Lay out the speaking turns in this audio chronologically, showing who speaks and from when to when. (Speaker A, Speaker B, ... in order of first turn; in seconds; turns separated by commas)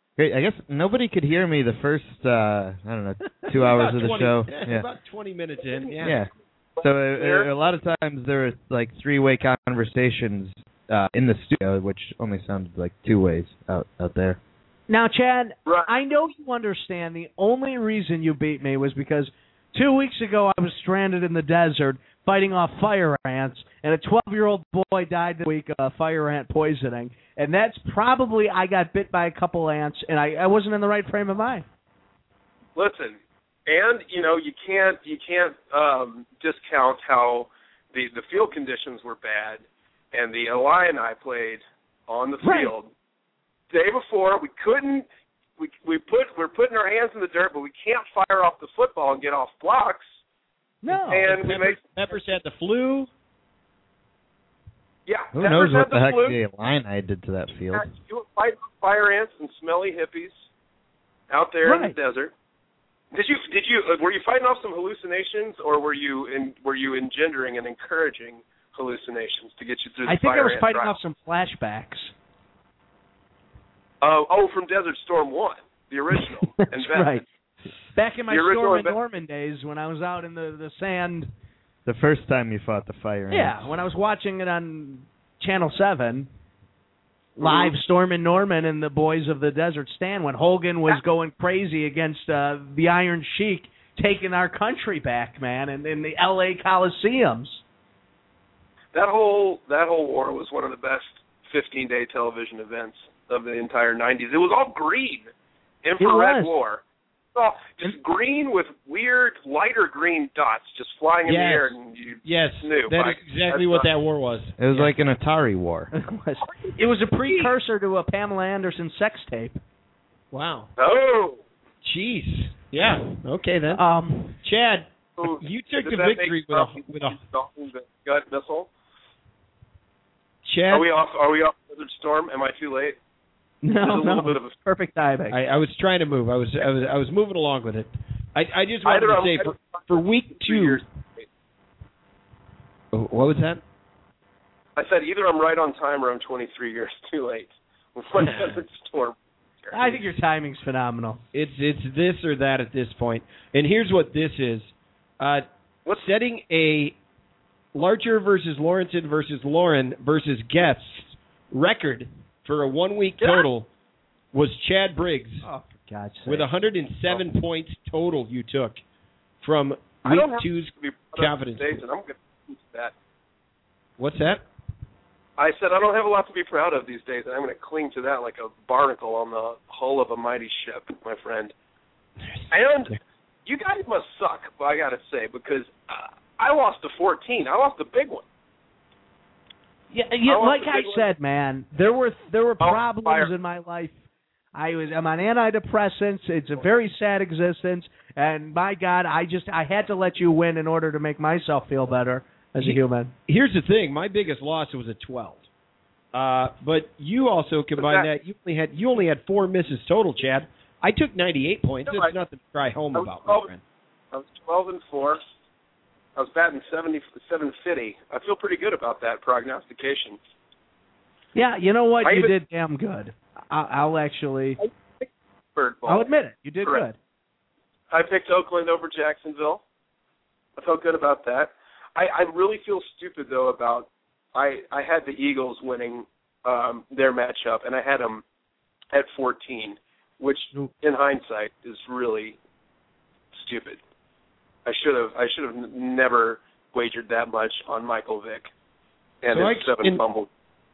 Speaker A: 0.2-4.9, Speaker B: 3.5-6.2, Speaker A: 6.0-14.4, Speaker C: 6.8-7.5, Speaker D: 14.9-31.6, Speaker C: 32.8-42.9, Speaker D: 42.4-42.7, Speaker C: 43.7-45.0, Speaker C: 45.6-50.0, Speaker D: 50.8-51.3, Speaker C: 51.1-52.2, Speaker B: 51.2-53.1, Speaker C: 55.1-56.4, Speaker A: 55.3-57.9, Speaker C: 57.7-60.4, Speaker C: 61.3-62.3, Speaker D: 61.6-62.0, Speaker C: 63.1-70.9, Speaker D: 70.0-72.1, Speaker C: 74.0-77.2, Speaker D: 76.4-77.2, Speaker D: 77.9-81.3, Speaker C: 78.3-78.9, Speaker A: 81.8-83.7, Speaker D: 83.3-86.3, Speaker D: 87.4-97.6, Speaker C: 87.4-87.7, Speaker C: 98.9-105.3, Speaker C: 105.8-106.8, Speaker D: 106.0-106.5, Speaker C: 107.3-113.9, Speaker B: 111.2-114.9, Speaker A: 114.6-115.9, Speaker D: 115.9-119.6, Speaker C: 116.4-116.8, Speaker B: 120.3-120.7, Speaker C: 120.8-121.4, Speaker B: 121.8-123.8, Speaker D: 123.7-124.4, Speaker B: 124.4-127.2, Speaker C: 125.2-128.7, Speaker B: 130.4-130.9, Speaker C: 130.7-133.0, Speaker D: 133.6-135.4, Speaker C: 133.8-134.5, Speaker B: 135.3-140.8, Speaker C: 138.8-141.2, Speaker B: 142.9-143.6, Speaker C: 144.8-150.0, Speaker B: 148.2-148.6, Speaker D: 149.7-151.2, Speaker B: 151.3-156.9, Speaker B: 157.7-163.7, Speaker B: 164.3-165.4, Speaker D: 165.4-166.5, Speaker B: 166.2-168.8, Speaker B: 169.4-171.8, Speaker C: 170.0-172.9, Speaker B: 174.0-174.4, Speaker C: 175.4-181.5, Speaker C: 182.5-188.2, Speaker D: 189.9-194.0, Speaker C: 190.2-191.1, Speaker C: 192.6-193.3, Speaker D: 194.5-203.1, Speaker B: 202.6-205.5, Speaker B: 206.1-213.6, Speaker C: 207.8-208.1, Speaker C: 211.8-212.1, Speaker C: 212.9-213.5, Speaker C: 214.1-215.2, Speaker C: 216.2-220.2, Speaker D: 221.3-224.6, Speaker C: 222.0-222.3, Speaker C: 224.6-226.1, Speaker D: 225.8-226.9, Speaker C: 227.9-229.6, Speaker C: 230.6-238.2, Speaker C: 238.9-242.4, Speaker C: 243.3-243.8, Speaker C: 244.6-248.5, Speaker C: 249.2-250.3, Speaker B: 249.3-250.0